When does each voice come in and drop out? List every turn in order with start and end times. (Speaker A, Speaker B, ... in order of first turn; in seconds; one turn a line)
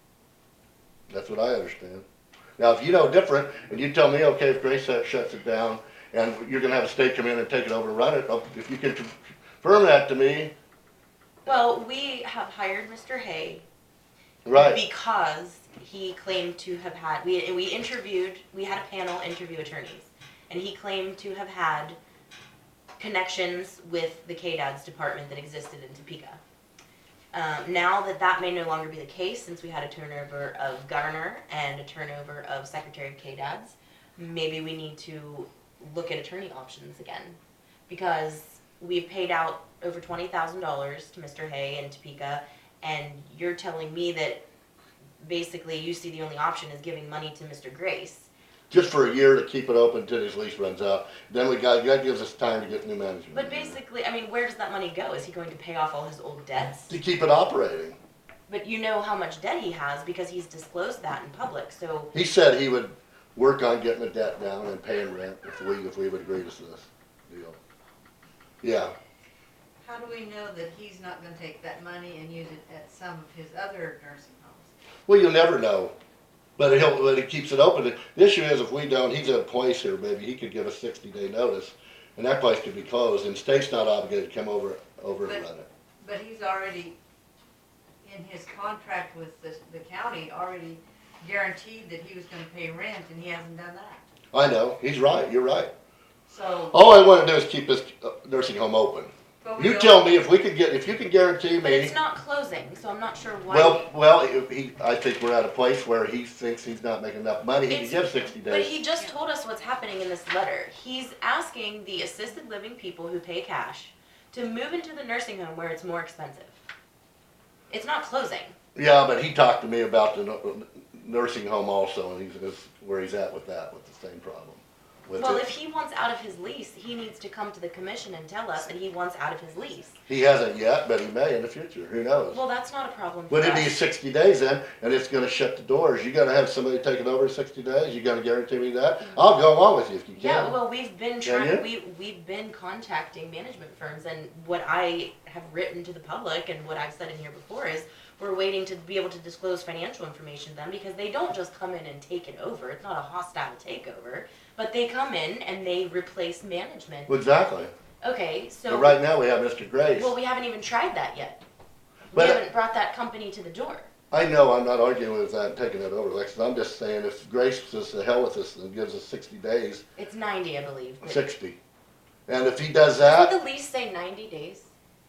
Speaker A: 1.1-2.0
Speaker A: 2.6-10.5
Speaker B: 11.4-13.6
Speaker A: 14.5-14.8
Speaker B: 14.5-22.0
Speaker B: 23.0-26.4
Speaker B: 27.3-44.4
Speaker B: 45.2-48.3
Speaker A: 48.7-53.8
Speaker B: 53.3-57.0
Speaker A: 56.9-58.0
Speaker B: 58.5-62.1
Speaker A: 62.1-67.6
Speaker A: 68.6-68.9
Speaker C: 69.8-74.7
Speaker A: 75.1-75.9
Speaker A: 76.6-85.7
Speaker C: 86.0-87.0
Speaker C: 88.0-94.0
Speaker A: 94.3-95.7
Speaker C: 96.3-96.8
Speaker A: 96.7-102.0
Speaker C: 99.4-100.2
Speaker B: 101.6-103.9
Speaker A: 103.5-108.8
Speaker B: 107.7-116.6
Speaker B: 117.7-118.6
Speaker A: 118.8-125.5
Speaker B: 125.2-130.0
Speaker A: 130.1-132.4
Speaker B: 132.3-133.8
Speaker A: 133.3-140.6
Speaker B: 140.2-157.1
Speaker A: 141.2-141.7
Speaker A: 157.1-157.7
Speaker B: 158.0-159.0
Speaker A: 158.7-160.1
Speaker B: 159.9-161.4
Speaker B: 162.1-163.9
Speaker A: 162.1-162.4
Speaker A: 164.1-169.8
Speaker B: 170.0-171.3
Speaker A: 171.0-171.6
Speaker A: 172.3-173.3
Speaker B: 173.0-174.7